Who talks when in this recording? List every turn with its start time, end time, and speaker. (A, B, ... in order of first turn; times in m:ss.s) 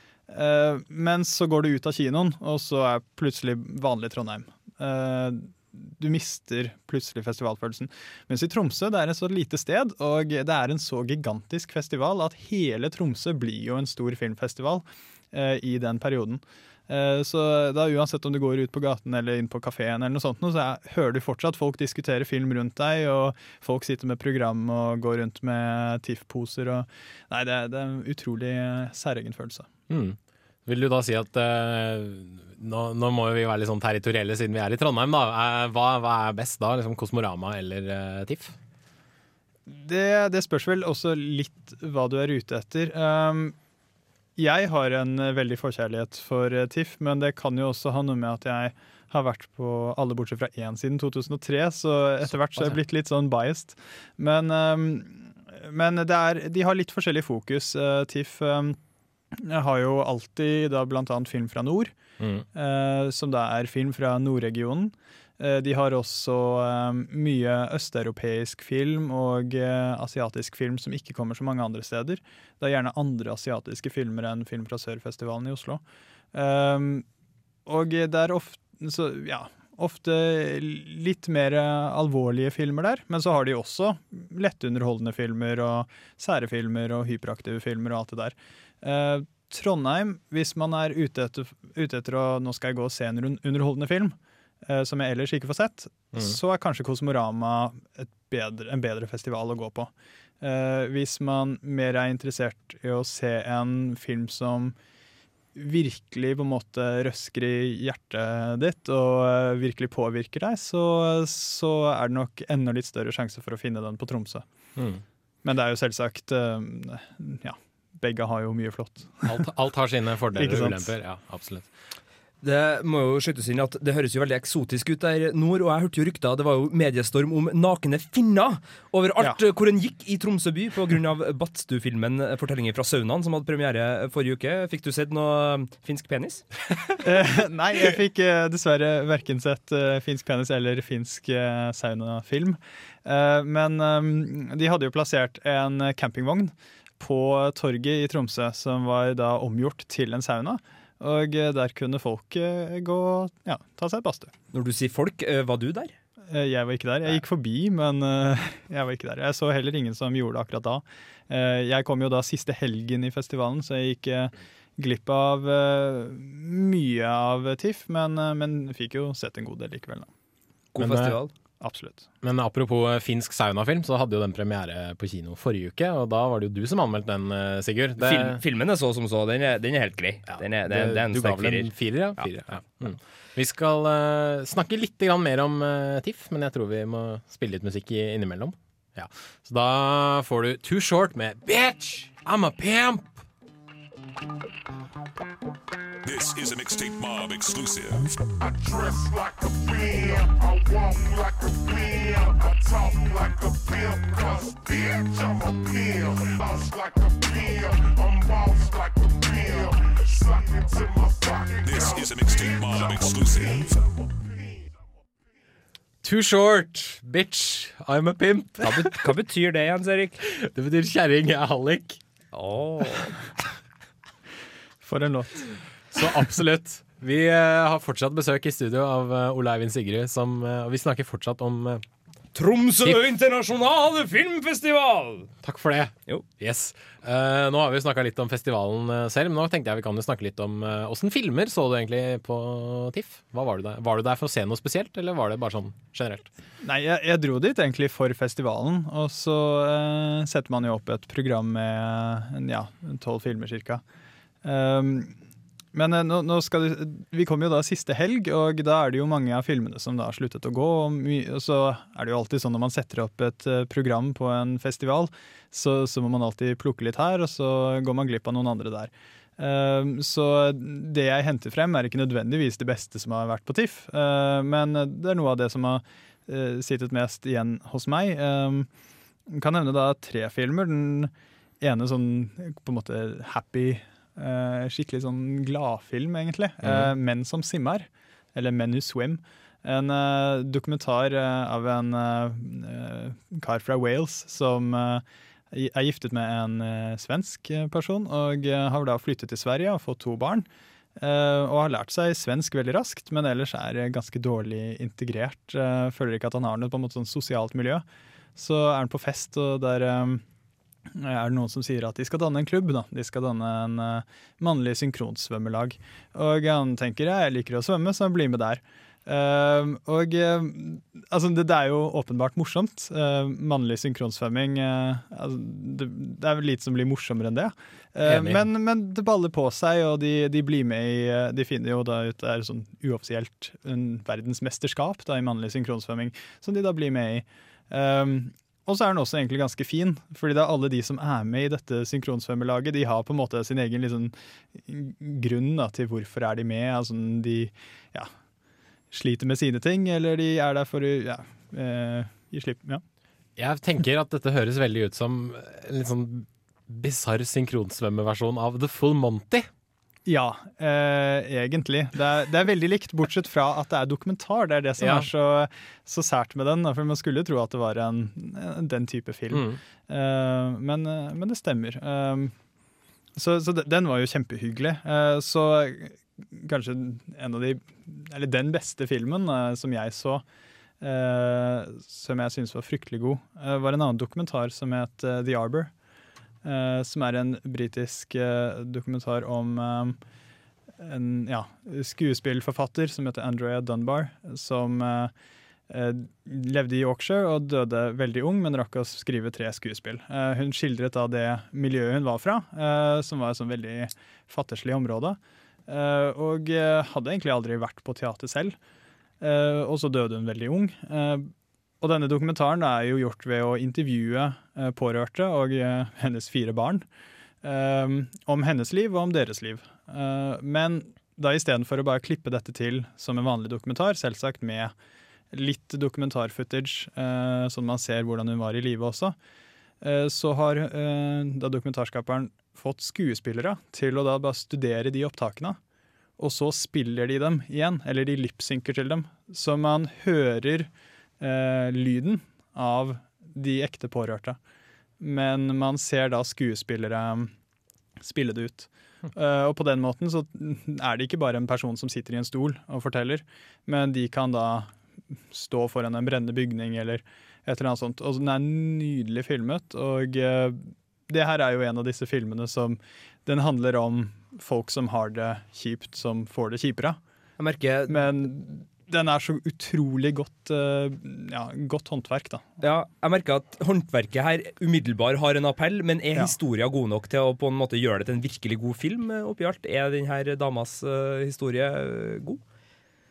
0:00.3-0:29.7 A
0:29.9-0:38.5 B
0:39.7-0:43.5 A
0:44.4-0:58.8 A
0:59.3-1:01.9 A
1:02.2-1:02.4 B
1:02.5-1:15.8 A
1:16.3-1:17.0 A
1:17.7-1:34.1 A
1:34.6-1:44.7 A
1:45.5-1:54.4 A
1:54.8-1:55.0 B
1:55.4-1:59.4 A
1:59.2-2:01.7 B
2:00.4-2:00.9 A
2:02.4-2:16.4 C
2:17.0-2:34.3 A
2:34.5-2:35.9 C
2:36.3-2:50.1 A
2:50.7-2:51.3 C
2:50.8-2:51.2 B
2:51.6-2:52.1 A
2:52.2-2:58.4 B
2:58.0-3:02.2 C
3:00.3-3:13.2 B
3:16.0-3:18.1 D
3:18.4-3:34.6 E
3:31.6-3:33.8 D
3:36.0-3:39.0 B
3:38.6-3:40.2 C
3:40.3-3:42.0 B
3:42.3-3:43.1 C
3:44.8-3:45.5 A
3:45.9-3:51.8 B
3:52.3-3:55.3 C
3:55.4-4:06.3 B
4:06.6-4:13.8 A
4:14.4-4:15.2 A
4:15.7-4:38.7 A
4:39.3-5:00.5 A
4:46.6-4:46.9 B
5:01.0-5:07.8 A
5:08.4-5:10.2 A
5:10.9-5:48.1 A
5:28.0-5:28.4 B
5:48.9-5:52.8 A
5:53.4-5:59.5 B
6:00.0-6:12.3 A
6:04.8-6:05.1 B
6:09.3-6:09.6 B
6:13.2-6:20.2 A
6:20.8-6:25.7 A
6:26.4-6:30.0 A
6:30.8-6:35.1 A
6:35.7-6:48.6 A
6:49.2-6:56.8 A
6:57.4-7:04.7 A
7:05.3-7:09.1 A
7:09.8-7:15.6 A
7:16.2-7:24.4 A
7:25.0-7:27.3 A
7:28.0-7:34.7 A
7:35.3-7:47.0 A
7:47.4-7:48.0 C
7:47.9-7:52.4 A
7:52.6-8:02.4 C